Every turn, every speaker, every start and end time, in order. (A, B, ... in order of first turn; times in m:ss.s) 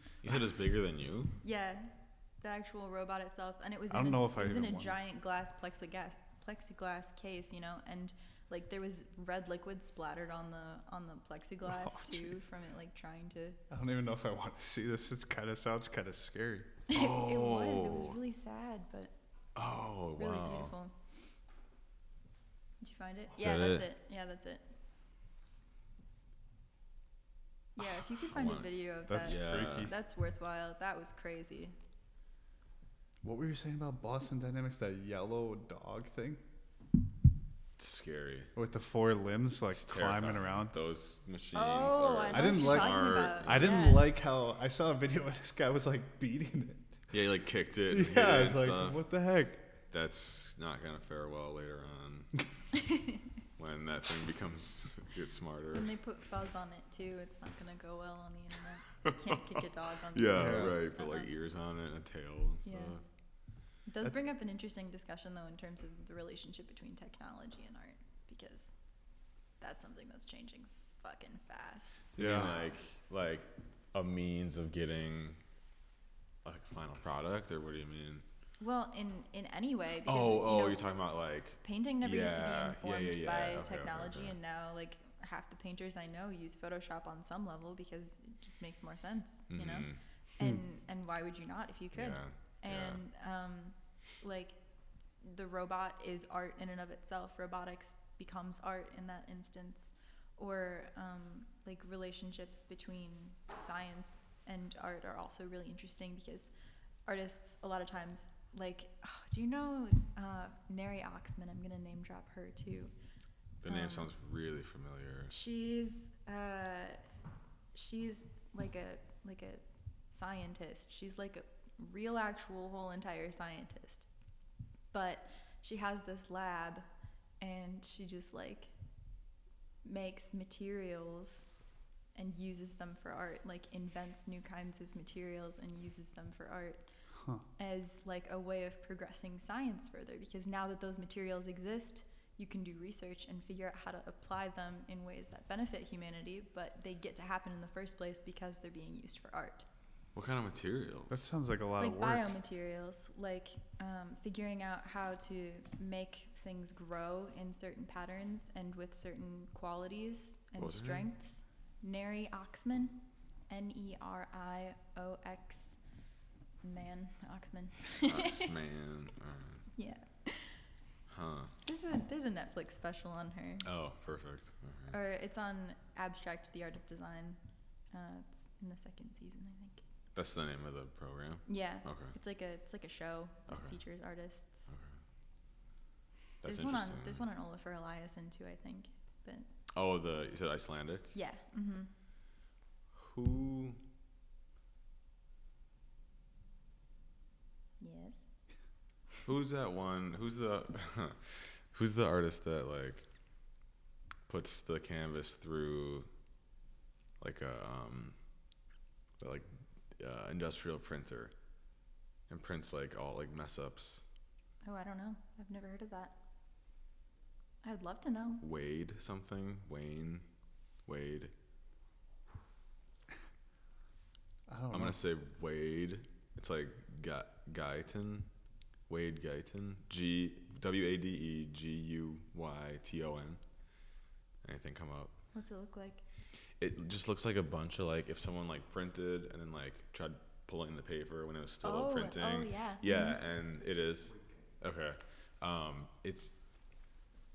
0:00.2-0:01.4 A
0:01.4-0:13.6 B
0:03.9-0:05.0 C
0:11.7-0:12.4 C
0:13.7-0:16.8 C
0:16.9-0:19.1 B
0:16.9-0:18.2 A
0:19.6-0:20.7 A
0:20.2-0:21.0 B
0:22.8-0:24.6 B
0:23.4-0:23.8 A
0:27.8-0:31.8 B
0:28.2-0:29.9 A
0:29.1-0:29.9 C
0:33.2-0:36.4 C
0:37.8-0:38.5 A
0:38.5-0:40.7 C
0:39.7-0:43.9 A
0:41.5-0:44.1 B
0:42.3-0:46.9 C
0:47.1-0:49.0 A
0:47.9-0:49.7 C
0:49.9-0:52.4 A
0:52.8-0:53.2 B
0:53.6-0:55.9 A
0:55.7-1:01.3 B
1:00.1-1:03.0 A
1:00.3-1:00.8 C
1:02.6-1:03.0 B
1:03.8-1:08.7 B
1:09.6-1:12.1 B
1:12.2-1:15.4 A
1:12.2-1:12.6 C
1:16.4-1:18.2 A
1:18.6-1:20.9 B
1:20.0-1:24.4 A
1:21.6-1:34.6 B
1:29.5-1:30.0 A
1:31.9-1:33.0 A
1:35.2-1:46.5 B
1:47.0-1:52.9 B
1:53.6-1:55.3 A
1:53.7-1:54.1 B
1:55.3-1:57.0 B
1:57.7-2:04.1 B
2:04.9-2:06.8 B
2:07.4-2:08.7 B
2:09.8-2:11.5 B
2:12.1-2:16.9 B
2:17.2-2:17.4 C
2:17.6-2:29.6 B
2:30.1-2:31.2 A
2:31.1-2:32.3 C
2:31.8-2:45.8 B
2:40.6-2:41.1 A
2:46.6-2:48.5 B
2:48.0-2:49.7 A
2:49.7-2:50.6 B
2:51.1-2:51.5 A
2:51.6-2:53.7 B
2:53.6-2:54.9 A
2:54.9-2:57.4 B
2:57.9-2:59.8 B
3:00.1-3:02.1 A
3:01.5-3:04.7 B
3:03.5-3:03.8 A
3:04.7-3:05.0 A
3:06.4-3:07.2 A
3:06.4-3:09.5 B
3:09.7-3:11.1 A
3:11.1-3:11.9 B
3:12.9-3:13.8 A
3:17.8-3:18.3 B
3:19.2-3:23.0 A
3:24.3-3:26.1 A
3:27.2-3:28.2 A
3:29.2-3:31.3 A
3:32.3-3:34.0 A
3:34.6-3:36.2 B
3:37.6-3:38.4 B
3:38.4-3:40.3 A
3:40.8-3:41.3 A
3:44.5-3:45.0 C
3:44.7-3:48.3 A
3:48.9-3:53.4 A
3:54.4-3:55.2 A
3:55.3-3:56.0 B
3:56.6-4:06.3 A
4:01.6-4:03.2 B